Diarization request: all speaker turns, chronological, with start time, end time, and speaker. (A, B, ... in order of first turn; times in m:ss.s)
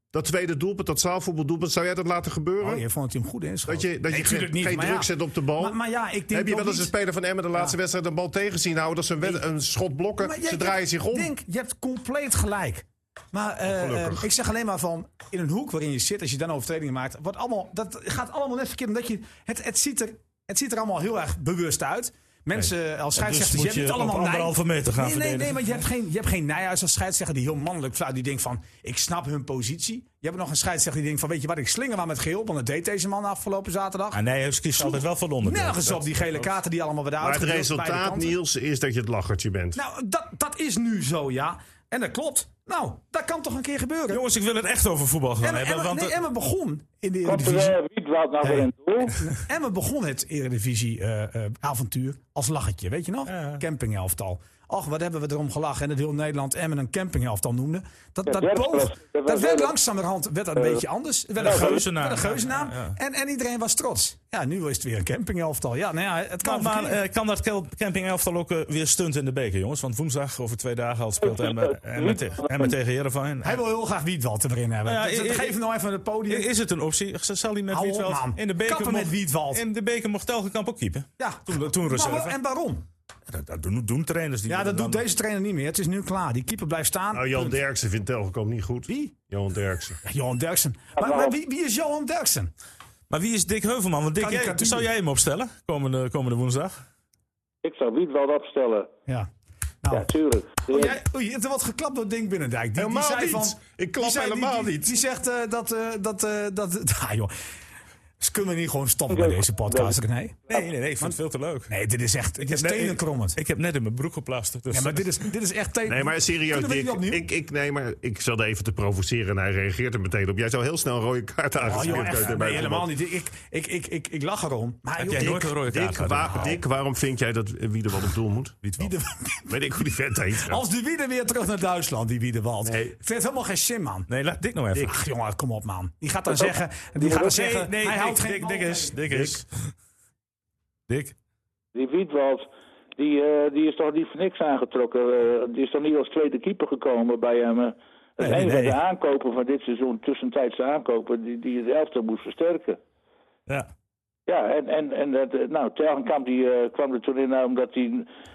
0:00.1-0:02.8 A
0:02.6-0:06.9 B
0:03.7-0:05.8 A
0:06.3-0:11.3 A
0:10.2-0:34.2 B
0:13.7-0:14.2 A
0:23.2-0:25.8 C
0:34.1-0:36.1 C
0:34.7-0:38.4 B
0:37.2-0:39.8 A
0:39.8-0:44.2 B
0:44.1-0:46.2 C
0:45.4-0:47.8 B
0:47.2-0:49.2 D
0:48.4-1:07.0 B
0:53.3-0:53.6 C
0:58.3-0:59.7 D
1:00.6-1:00.8 D
1:01.4-1:03.0 C
1:06.4-1:13.6 C
1:11.4-1:12.2 D
1:13.4-1:16.5 B
1:14.9-1:15.6 C
1:16.3-1:22.4 C
1:17.7-1:19.6 B
1:21.2-1:22.9 B
1:23.3-1:25.0 C
1:24.5-1:27.6 B
1:27.1-1:30.0 A
1:28.9-1:29.1 B
1:30.0-1:32.5 B
1:31.0-1:31.3 D
1:33.1-1:36.8 C
1:34.2-1:34.9 B
1:37.6-1:38.9 D
1:39.9-1:41.0 D
1:40.6-1:47.3 B
1:42.8-1:44.9 A
1:48.2-1:50.4 B
1:49.1-1:50.0 D
1:50.5-1:51.7 C
1:51.7-1:53.4 B
1:52.4-1:55.2 C
1:54.7-1:57.3 B
1:55.9-2:02.9 A
2:01.6-2:05.5 B
2:01.7-2:02.3 C
2:05.0-2:06.6 C
2:05.2-2:08.7 A
2:08.6-2:08.9 C
2:08.8-2:14.1 B
2:09.5-2:10.6 A
2:12.6-2:12.9 A
2:14.1-2:15.0 C
2:14.8-2:19.3 B
2:17.0-2:19.7 C
2:20.9-2:21.2 C
2:21.8-2:32.8 D
2:28.2-2:28.8 C
2:34.3-2:38.1 D